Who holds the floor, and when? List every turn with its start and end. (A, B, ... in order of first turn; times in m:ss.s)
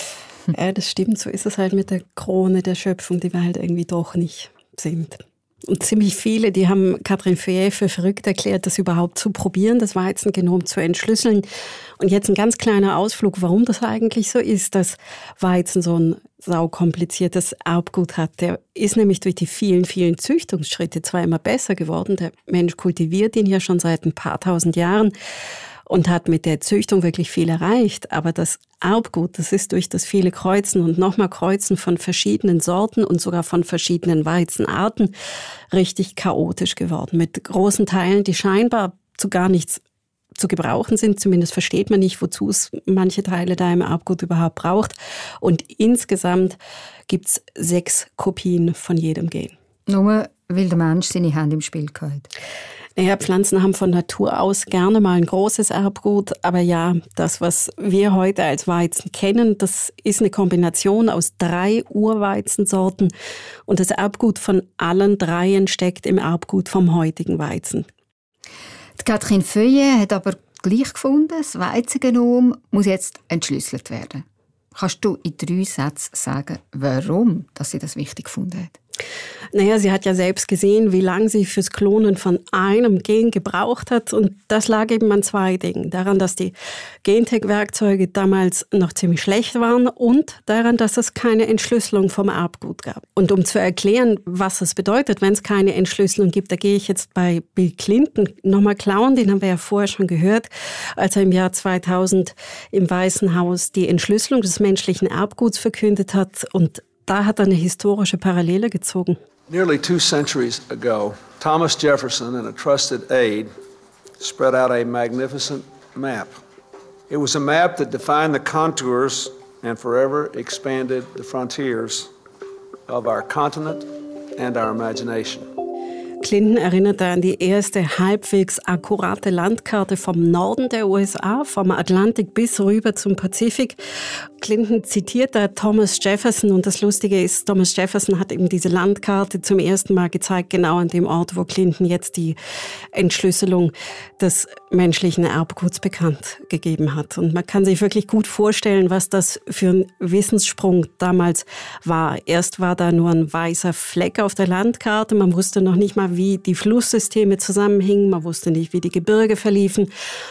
0:00.5-0:11.5 A
0:12.0-0:25.1 A
0:25.9-0:35.1 A
0:35.7-0:39.8 A
0:40.4-0:49.5 A
0:49.9-0:52.3 B
0:53.0-1:03.1 A
1:03.7-1:07.9 A
1:09.0-1:18.8 B
1:19.5-1:49.2 A
1:49.5-1:53.5 C
1:54.2-1:56.4 C
1:57.1-2:02.1 C
2:02.9-2:05.5 C
2:06.2-2:13.8 A
2:14.4-2:22.4 A
2:22.9-2:39.9 A